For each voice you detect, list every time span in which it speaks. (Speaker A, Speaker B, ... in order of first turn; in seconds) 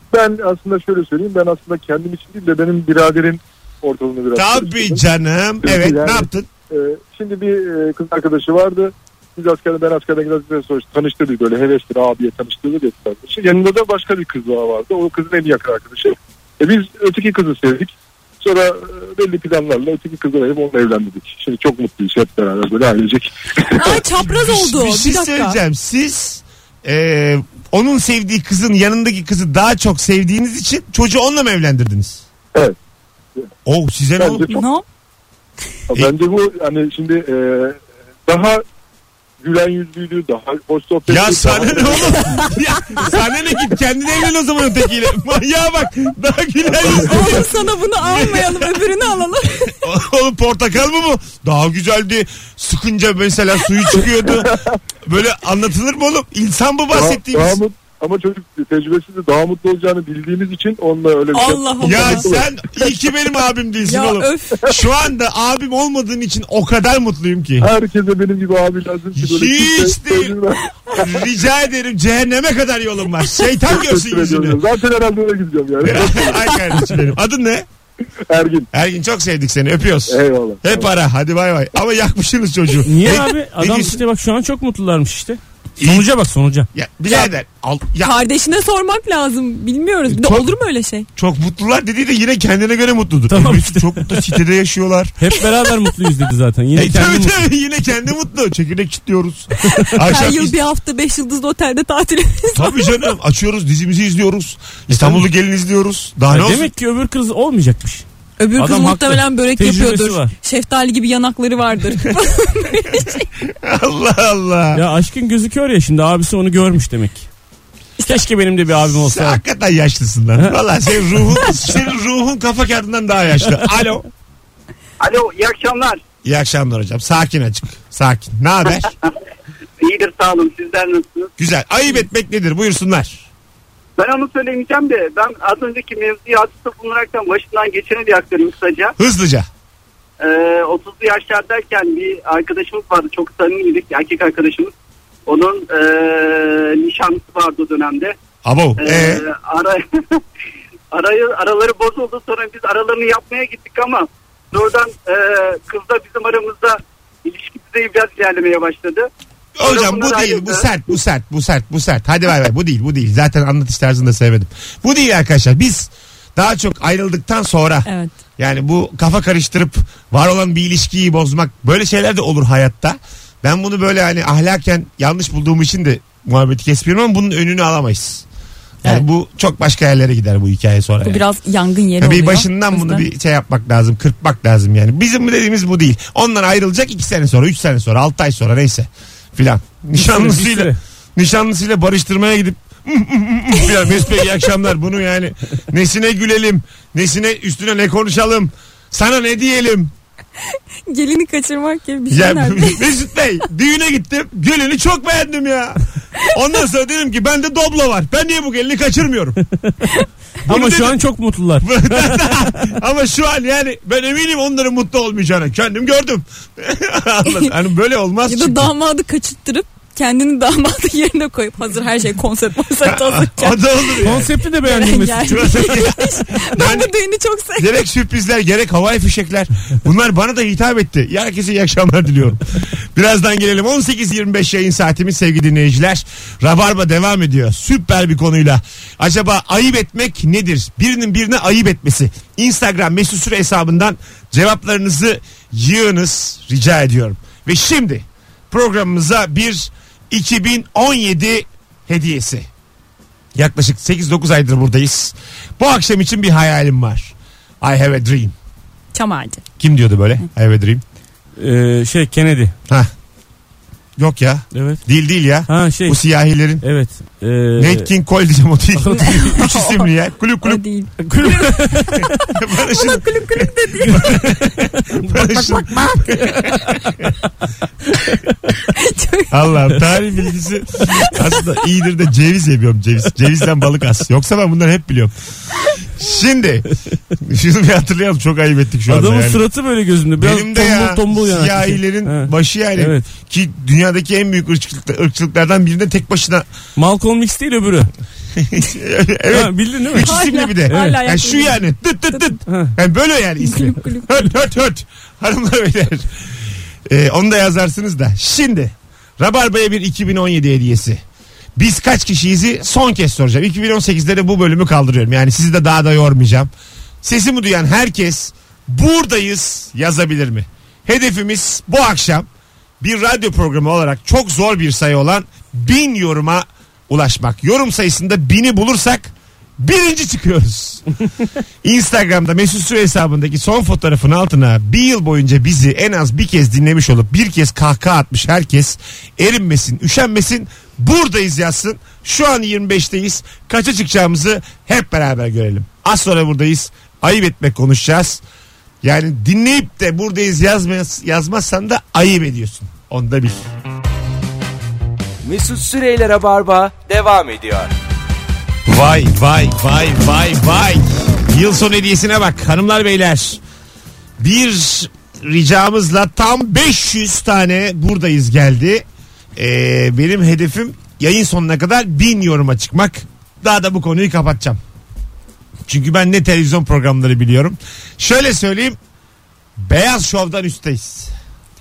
Speaker A: 0.1-5.0, 5.6-24.0, 34.2-34.6, 35.9-38.6, 39.4-42.3, 54.3-54.7, 56.9-62.9, 67.6-71.2, 73.7-76.9, 78.3-78.7, 80.1-80.9
Speaker B: 4.3-6.5, 23.9-32.2, 33.6-34.5, 41.1-48.8, 49.7-57.6, 61.8-67.7, 69.2-70.4, 70.9-74.6, 75.8-77.7, 78.7-84.0, 85.8-86.1, 86.7-88.2, 90.1-90.5, 91.2-95.1, 96.7-100.5, 102.5-106.7, 113.5-114.8, 118.9-124.0, 126.2-128.9, 131.4-133.2, 139.0-139.5, 148.4-149.2, 159.6-178.2, 178.8-181.2, 182.0-199.9, 202.1-209.4, 210.4-211.0, 211.6-218.7, 222.8-224.3, 225.2-226.9, 227.6-252.5, 253.3-258.3, 259.6-260.8, 264.0-266.6, 267.6-270.6, 272.3-277.1, 279.3-285.1, 285.9-289.4, 290.2-296.5, 298.4-306.1, 306.9-311.0, 311.6-316.5, 317.0-322.3, 322.8-330.8, 331.6-348.2, 348.8-353.4, 358.6-363.4, 364.2-368.8, 369.4-374.6, 375.7-378.8, 379.6-381.1
Speaker C: 23.7-25.6, 34.5-34.8, 46.8-49.8, 61.3-62.3, 63.8-64.6, 88.0-91.1, 99.6-103.0, 108.4-113.3, 167.8-168.1, 181.0-183.0, 200.9-202.9, 217.2-217.5, 218.2-227.7, 258.9-259.4, 268.9-269.9, 270.4-274.2, 278.7-279.3, 280.9-281.4, 300.0-302.4, 303.4-304.1
Speaker D: 82.8-86.7, 93.3-94.3, 95.2-97.4, 104.9-105.2, 106.3-108.0, 108.6-110.3, 114.7-117.3, 118.0-119.4, 189.9-190.8, 210.5-212.6, 224.0-225.7, 261.4-262.5, 264.5-264.8, 265.5-266.0, 266.6-267.9, 268.8-269.4, 271.0-272.1, 273.9-275.6, 288.9-293.1, 296.8-297.9, 299.3-300.1, 300.7-301.0, 302.5-302.7
Speaker E: 125.0-126.0, 129.8-131.3, 134.0-138.9, 140.2-144.7, 145.3-148.1, 148.8-150.2, 150.9-159.1, 159.6-160.7
Speaker F: 355.2-357.7